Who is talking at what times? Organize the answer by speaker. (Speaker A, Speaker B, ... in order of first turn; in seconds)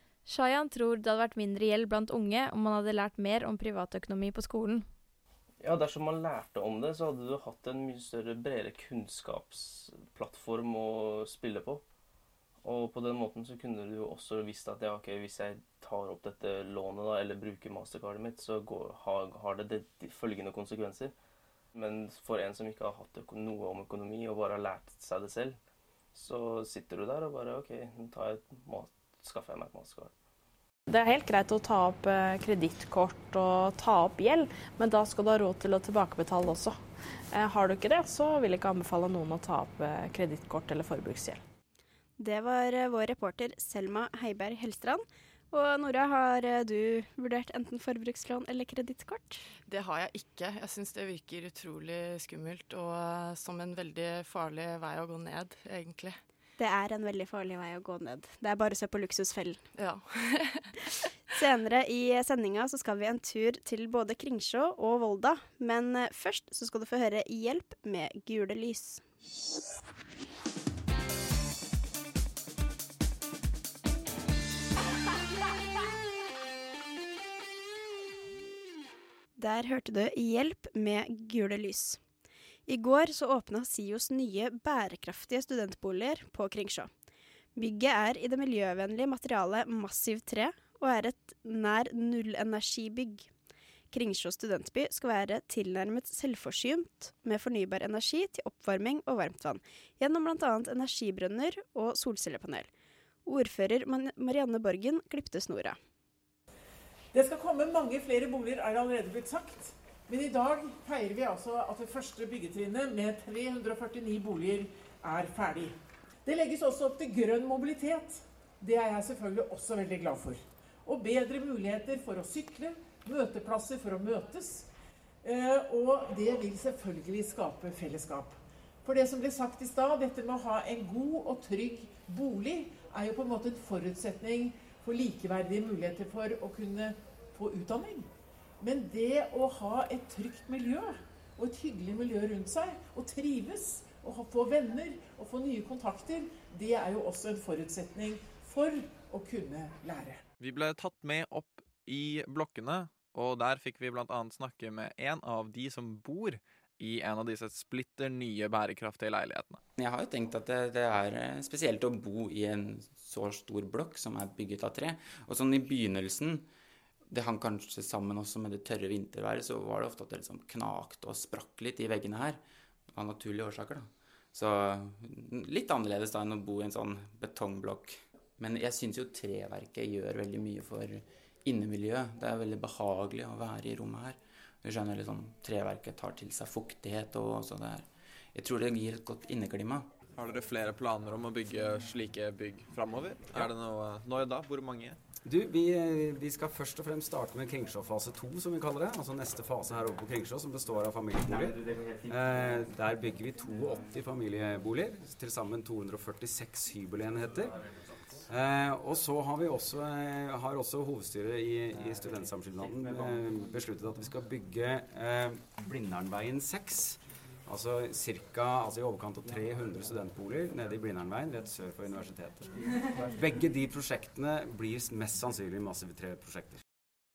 Speaker A: 0.3-4.8
Speaker B: 5.6-11.8, 12.6-21.1, 21.7-25.6, 26.1-30.1
Speaker C: 30.9-41.4
Speaker D: 42.2-49.4, 56.6-59.6, 61.3-69.0, 79.4-82.0, 82.7-86.9, 87.5-93.3, 93.9-102.7, 103.2-105.8
Speaker E: 49.7-56.2, 59.8-60.7
Speaker F: 107.1-124.7, 125.2-138.1, 138.6-150.2
Speaker G: 150.4-159.6, 190.1-195.0
Speaker H: 159.8-166.5, 167.1-189.9
Speaker I: 195.2-226.6